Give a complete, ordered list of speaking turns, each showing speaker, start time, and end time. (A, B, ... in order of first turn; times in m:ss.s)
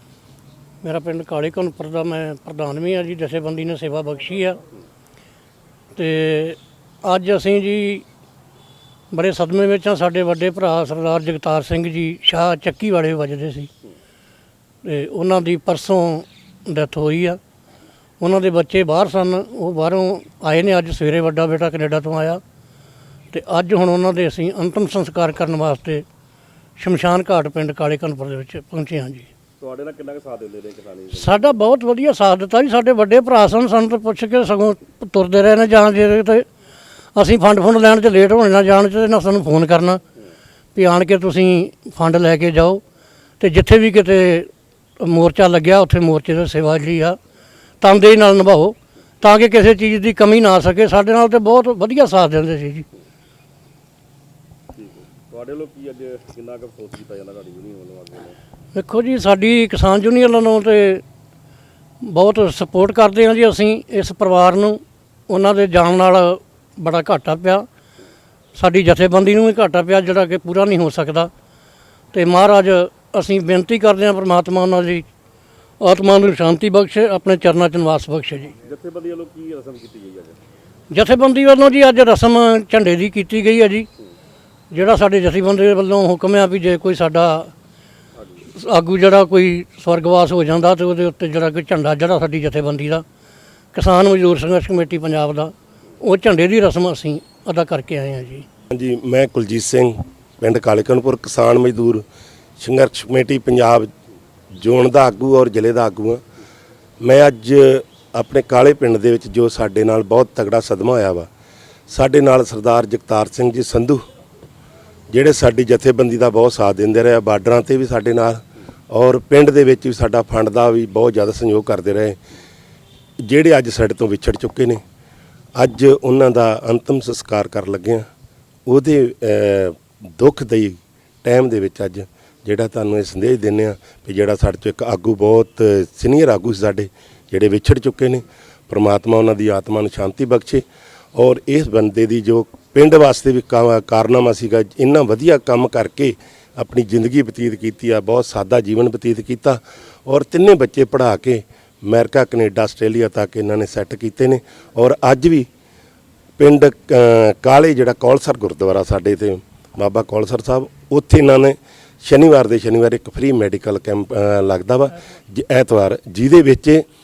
0:00.8-0:04.6 A
0:05.9-0:08.0 A
0:09.1-0:13.7 A
0:14.8-0:17.4 A
0:18.2-0:22.4 A
0:23.3-0:26.0 A
0:26.8-0:29.3 A
0:29.6-0:31.5 B
0:31.1-0:36.5 A
0:37.1-0:40.0 A
0:40.7-0:42.8 A
0:43.4-0:47.2 A
0:47.8-0:52.8 A
0:54.8-0:58.4 B
0:58.7-1:01.0 A
1:02.0-1:07.7 A
1:08.5-1:11.3 A
1:12.1-1:15.0 A
1:15.8-1:18.5 A
1:18.6-1:20.4 B
1:20.9-1:23.9 A
1:24.7-1:27.5 A
1:28.5-1:33.0 A
1:33.7-1:38.4 A
1:38.7-1:42.0 C
1:42.6-1:43.9 C
1:44.6-1:46.2 C
1:47.0-1:51.3 C
1:51.9-1:54.0 C
1:55.1-2:02.2 C
2:03.2-2:04.8 C
2:05.5-2:08.1 C
2:08.6-2:20.6 C
2:21.1-2:35.5 C
2:36.4-2:46.8 C